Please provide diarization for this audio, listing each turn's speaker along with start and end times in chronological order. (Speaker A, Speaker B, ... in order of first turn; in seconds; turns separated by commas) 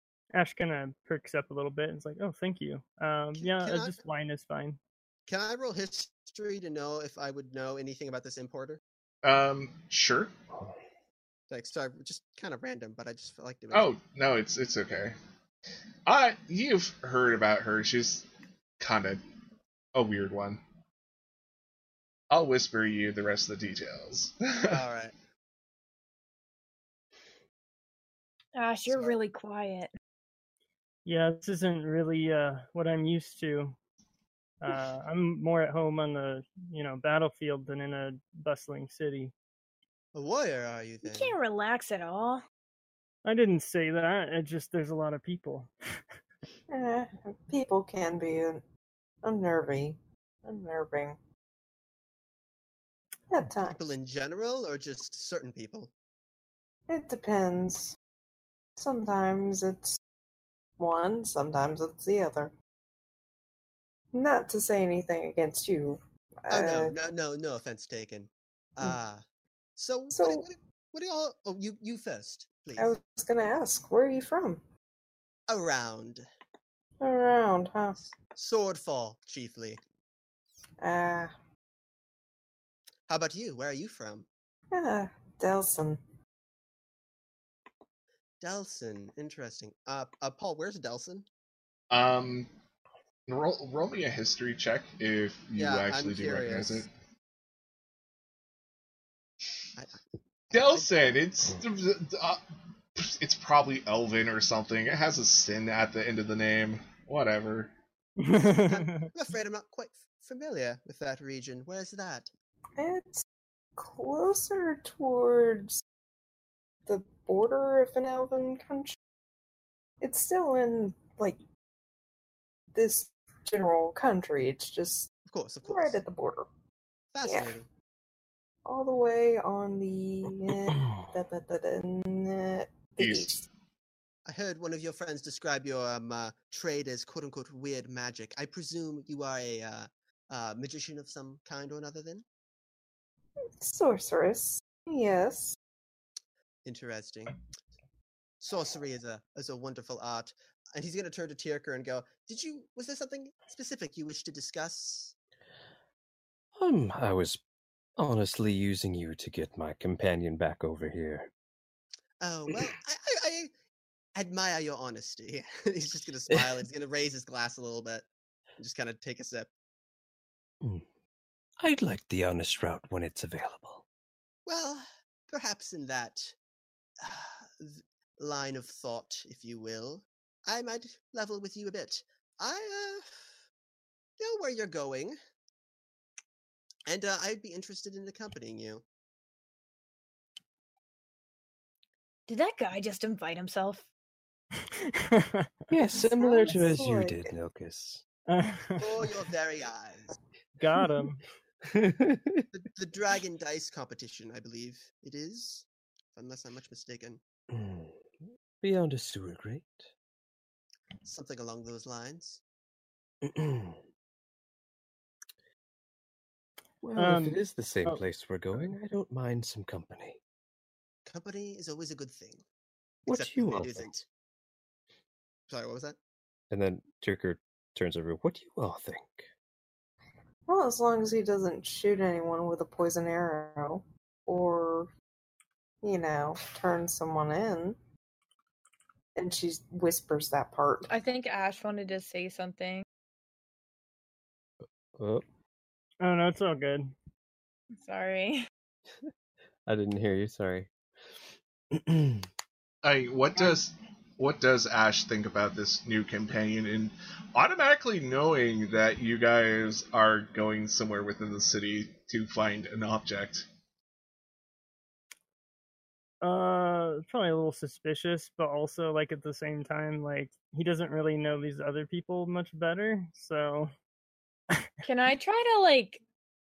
Speaker A: 0.3-4.8, Speaker B: 3.3-4.0, Speaker B: 5.3-8.8, Speaker C: 9.2-10.3, Speaker B: 11.5-13.9, Speaker C: 13.7-15.2, Speaker C: 16.1-18.2, Speaker C: 18.8-19.2, Speaker C: 19.9-20.6, Speaker C: 22.3-24.8, Speaker B: 24.6-25.1, Speaker D: 28.6-29.9, Speaker B: 28.9-29.2, Speaker A: 31.0-33.8, Speaker A: 34.6-39.3, Speaker B: 40.1-41.3, Speaker D: 41.0-42.4, Speaker A: 43.2-45.7, Speaker E: 46.7-48.6, Speaker E: 49.2-51.2, Speaker E: 53.3-53.8, Speaker B: 53.7-55.9, Speaker E: 56.9-58.0, Speaker E: 58.8-60.0, Speaker E: 60.8-62.5, Speaker E: 64.1-66.9, Speaker B: 66.5-69.2, Speaker B: 69.8-72.9, Speaker E: 70.1-70.5, Speaker E: 72.8-74.6, Speaker B: 75.5-76.2, Speaker E: 77.0-78.1, Speaker B: 78.3-79.8, Speaker E: 80.8-81.3, Speaker B: 83.1-84.3, Speaker E: 84.7-86.0, Speaker B: 88.4-91.3, Speaker C: 91.9-92.5, Speaker C: 93.3-96.9, Speaker B: 95.5-96.9, Speaker B: 100.5-100.9, Speaker C: 100.5-102.4, Speaker C: 103.0-107.7, Speaker A: 108.2-109.1, Speaker B: 108.3-112.3, Speaker E: 112.8-113.2, Speaker E: 113.8-115.8, Speaker E: 116.8-119.0, Speaker E: 120.0-121.4, Speaker E: 122.7-125.1, Speaker B: 125.3-126.0, Speaker E: 125.6-126.5, Speaker B: 127.1-127.7, Speaker E: 127.2-127.5, Speaker E: 128.6-133.5, Speaker F: 130.7-131.1, Speaker C: 133.0-133.3, Speaker B: 134.2-142.2, Speaker E: 143.6-145.6, Speaker B: 146.7-147.3, Speaker B: 148.4-155.1, Speaker F: 156.6-157.4, Speaker F: 158.0-161.3, Speaker B: 162.2-163.5, Speaker B: 164.1-168.1, Speaker B: 168.6-169.5, Speaker F: 171.6-173.8, Speaker B: 174.4-176.3, Speaker B: 177.0-183.3, Speaker B: 184.2-185.2, Speaker B: 186.8-188.8, Speaker D: 192.3-193.9, Speaker A: 194.7-195.5, Speaker F: 195.7-198.0, Speaker E: 195.9-197.3, Speaker A: 198.3-199.1, Speaker B: 198.8-200.2, Speaker A: 200.6-201.2, Speaker F: 201.6-202.5, Speaker B: 202.5-207.2, Speaker F: 207.5-208.0, Speaker F: 208.6-209.9, Speaker B: 211.0-212.4, Speaker F: 213.2-213.8, Speaker F: 216.8-220.2, Speaker A: 216.9-218.7, Speaker B: 221.1-222.4, Speaker F: 223.1-223.9, Speaker B: 223.1-224.1, Speaker B: 225.5-226.0, Speaker F: 226.5-229.3, Speaker E: 230.5-234.9, Speaker E: 235.8-237.8, Speaker E: 239.1-240.9, Speaker D: 240.9-242.8, Speaker F: 244.9-245.2, Speaker A: 246.0-246.9, Speaker D: 247.8-248.5, Speaker F: 249.7-250.7, Speaker F: 251.7-252.3, Speaker C: 252.8-263.4, Speaker A: 266.2-273.7, Speaker D: 274.8-276.0